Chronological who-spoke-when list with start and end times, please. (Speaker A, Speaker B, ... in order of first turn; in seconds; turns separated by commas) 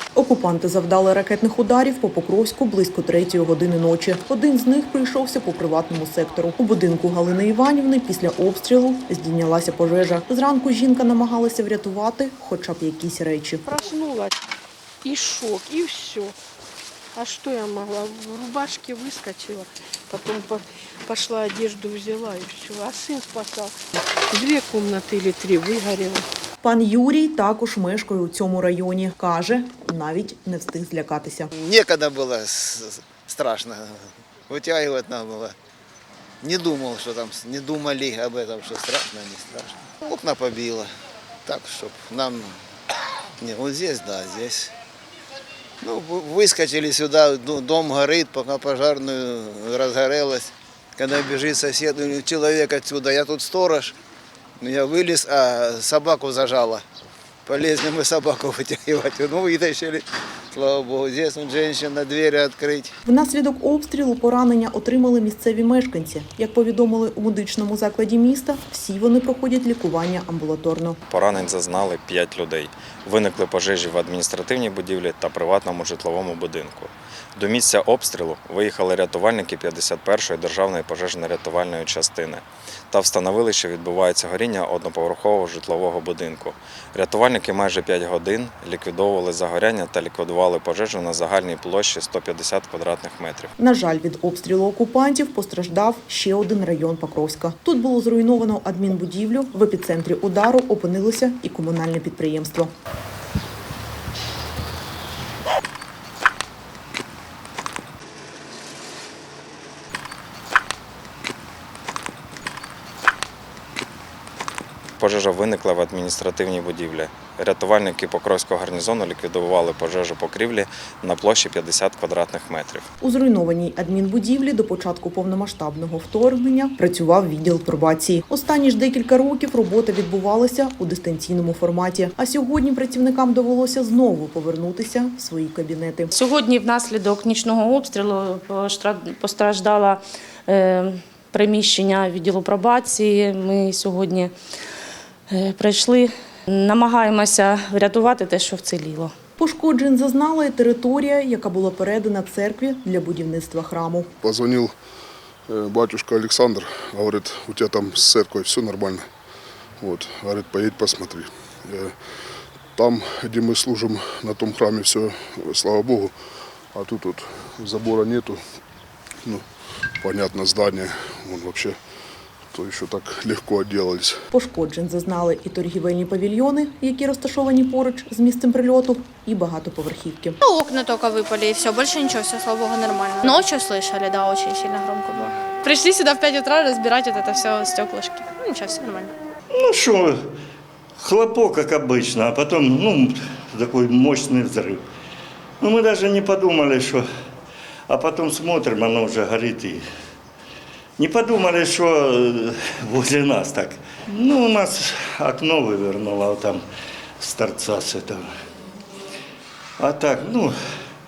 Speaker A: 0.1-13.6, Speaker B: 13.7-14.4, Speaker B: 15.0-16.4, Speaker B: 17.1-23.7, Speaker B: 24.3-26.2, Speaker A: 26.6-31.5, Speaker C: 31.5-35.5, Speaker C: 36.4-40.9, Speaker C: 41.5-42.6, Speaker C: 43.4-44.7, Speaker C: 45.8-54.0, Speaker C: 54.6-56.8, Speaker C: 57.5-62.9, Speaker A: 63.0-71.0, Speaker D: 71.1-93.5, Speaker A: 93.6-102.7, Speaker D: 115.0-122.9, Speaker A: 123.0-136.1, Speaker E: 136.1-144.3, Speaker E: 145.3-149.1, Speaker A: 149.4-154.1, Speaker F: 154.2-154.7, Speaker F: 155.5-159.0, Speaker F: 159.8-161.9, Speaker F: 162.8-166.1, Speaker F: 166.7-168.4, Speaker F: 170.0-171.8, Speaker F: 172.5-174.2, Speaker A: 174.3-180.4, Speaker G: 180.4-189.1, Speaker H: 189.5-190.2, Speaker H: 191.0-194.8, Speaker H: 195.6-197.1, Speaker H: 197.9-199.8, Speaker H: 201.0-206.6, Speaker H: 207.2-208.3, Speaker H: 209.8-210.5